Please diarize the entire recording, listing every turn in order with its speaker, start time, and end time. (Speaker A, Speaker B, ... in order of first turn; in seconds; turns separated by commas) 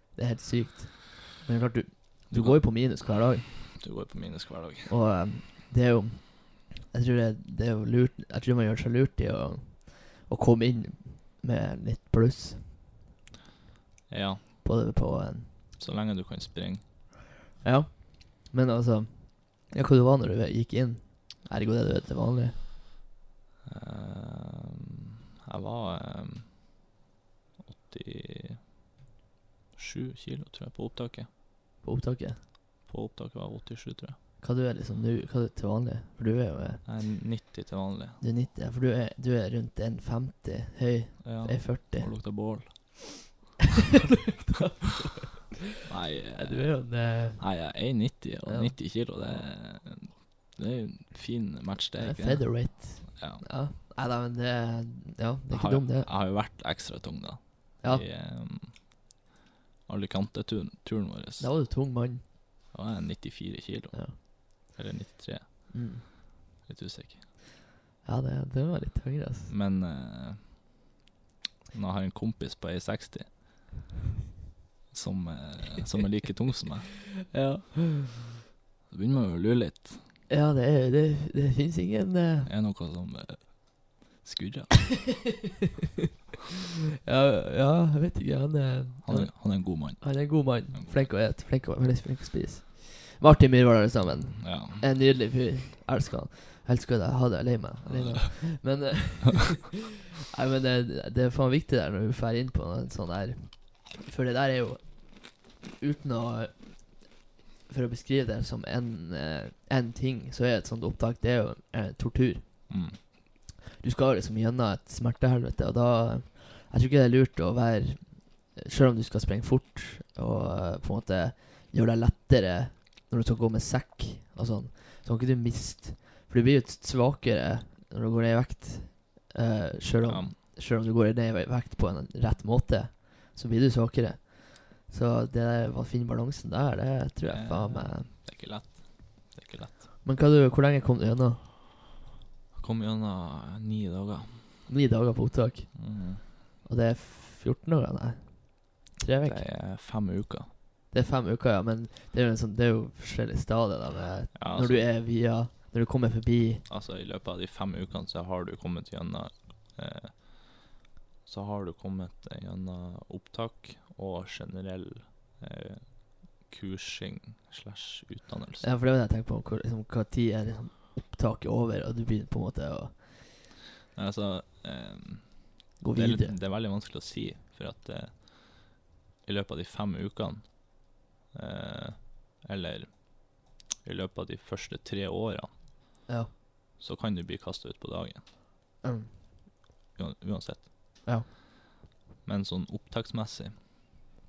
Speaker A: 0.1-3.7, Speaker B: 2.3-2.7, Speaker B: 3.5-4.9, Speaker A: 4.9-12.8, Speaker B: 14.1-14.4, Speaker A: 14.6-15.5, Speaker B: 15.8-16.8, Speaker A: 17.6-22.6, Speaker B: 23.6-26.6, Speaker B: 27.6-28.6, Speaker B: 29.7-31.3, Speaker A: 31.8-32.4, Speaker B: 32.9-34.2, Speaker A: 34.4-36.9, Speaker B: 36.9-38.2, Speaker A: 38.2-42.2, Speaker B: 41.2-43.1, Speaker A: 44.3-45.6, Speaker B: 45.9-53.4, Speaker A: 46.1-47.7, Speaker A: 48.5-49.4, Speaker A: 52.0-56.1, Speaker B: 55.5-58.8, Speaker B: 59.9-61.5, Speaker A: 61.4-62.2, Speaker B: 62.7-65.7, Speaker A: 65.7-66.0, Speaker B: 66.7-67.2, Speaker A: 68.0-69.5, Speaker B: 69.5-70.4, Speaker B: 71.7-73.3, Speaker B: 74.9-76.9, Speaker A: 77.3-78.3, Speaker B: 78.9-80.0, Speaker A: 80.3-82.5, Speaker B: 82.4-84.9, Speaker A: 87.0-99.8, Speaker B: 89.0-91.0, Speaker B: 94.4-94.8, Speaker B: 97.8-98.2, Speaker A: 100.3-107.1, Speaker A: 107.7-112.7, Speaker B: 112.7-113.0, Speaker A: 113.8-138.1, Speaker B: 130.0-130.3, Speaker B: 137.3-139.8, Speaker A: 140.0-141.5, Speaker B: 142.5-144.5, Speaker A: 144.7-145.8, Speaker B: 145.8-146.2, Speaker A: 146.6-149.5, Speaker B: 149.2-150.5, Speaker A: 150.9-156.6, Speaker B: 154.3-154.9, Speaker B: 156.7-160.6, Speaker B: 161.2-168.7, Speaker A: 168.6-173.1, Speaker B: 173.9-180.8, Speaker A: 175.8-176.4, Speaker B: 181.3-185.5, Speaker B: 186.8-188.2, Speaker A: 188.8-189.1, Speaker B: 189.9-191.0, Speaker B: 192.2-193.5